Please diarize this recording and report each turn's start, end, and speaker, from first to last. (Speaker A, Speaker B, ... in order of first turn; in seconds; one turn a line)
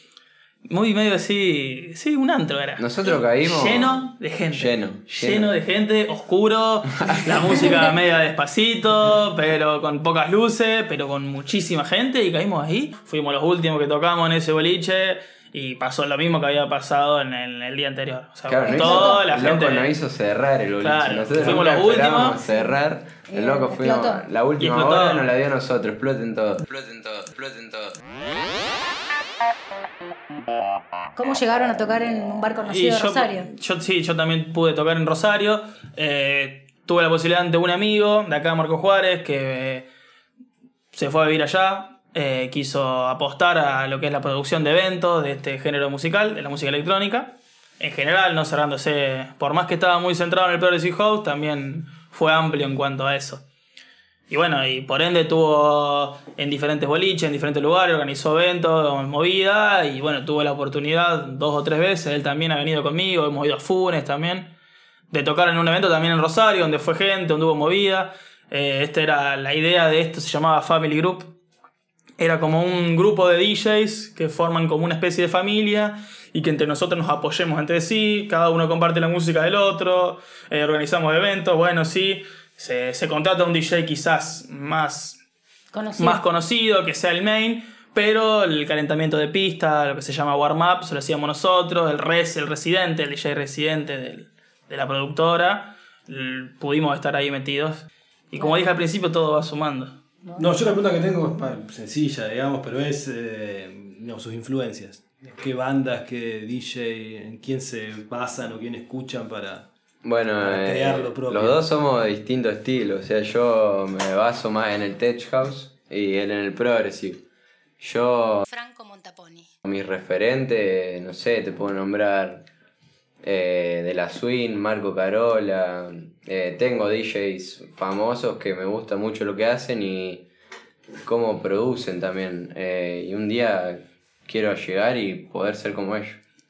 Speaker A: 0.7-20.0
Speaker B: 2.8-5.5
Speaker B: 18.5-28.0
Speaker C: 18.6-19.2
Speaker A: 20.8-22.4
Speaker C: 23.3-24.2
Speaker A: 24.6-25.3
Speaker C: 31.2-33.5
Speaker A: 32.7-39.9
Speaker A: 40.9-53.4
Speaker A: 54.3-64.5
Speaker A: 65.1-71.3
Speaker A: 72.2-85.2
Speaker C: 85.7-86.2
Speaker A: 86.0-100.0
Speaker C: 98.4-98.6
Speaker C: 100.2-100.5
Speaker D: 100.4-109.7
Speaker B: 110.0-117.2
Speaker D: 110.4-111.6
Speaker B: 117.8-118.5
Speaker C: 118.5-119.5
Speaker B: 119.6-122.4
Speaker B: 123.2-130.3
Speaker B: 131.1-136.2